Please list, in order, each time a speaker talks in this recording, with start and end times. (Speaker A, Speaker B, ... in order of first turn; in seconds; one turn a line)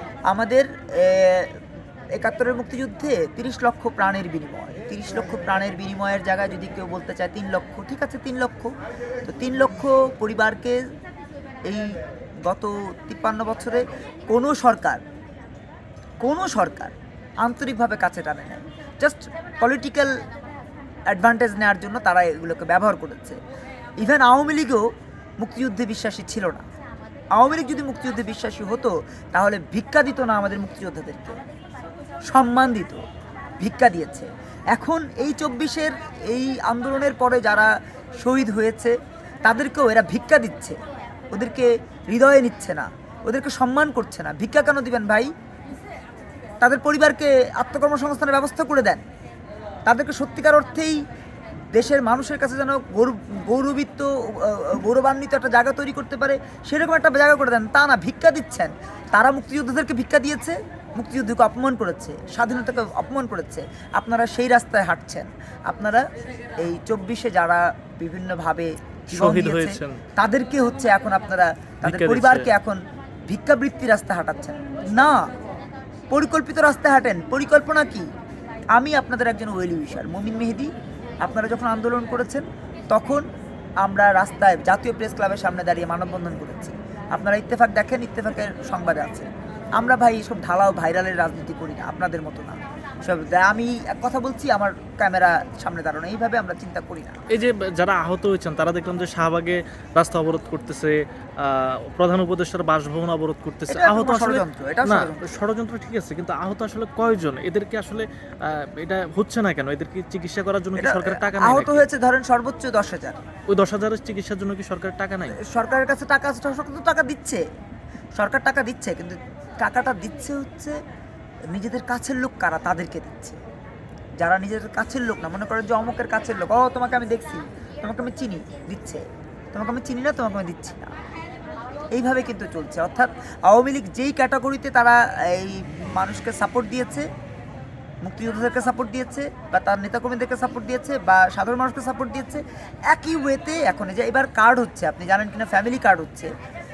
Speaker A: 0.3-1.6
Speaker A: 2.1-8.7
Speaker A: 9.2-10.9
Speaker A: 11.7-15.0
Speaker A: 16.2-20.1
Speaker A: 21.1-23.4
Speaker A: 24.0-24.9
Speaker A: 25.4-26.6
Speaker A: 27.4-31.4
Speaker A: 32.3-33.0
Speaker A: 33.6-40.8
Speaker A: 41.3-45.3
Speaker A: 46.6-49.0
Speaker A: 49.9-51.0
Speaker A: 51.7-66.0
Speaker A: 66.6-75.3
Speaker B: 69.1-70.0
Speaker B: 71.8-72.5
Speaker A: 76.1-78.1
Speaker A: 78.7-83.2
Speaker A: 83.8-97.2
Speaker B: 97.3-111.9
Speaker A: 103.7-105.4
Speaker A: 110.8-113.2
Speaker B: 113.5-115.4
Speaker A: 115.3-117.4
Speaker A: 118.2-120.8
Speaker A: 121.5-123.4
Speaker A: 124.2-130.9
Speaker A: 131.9-137.1
Speaker A: 138.0-146.3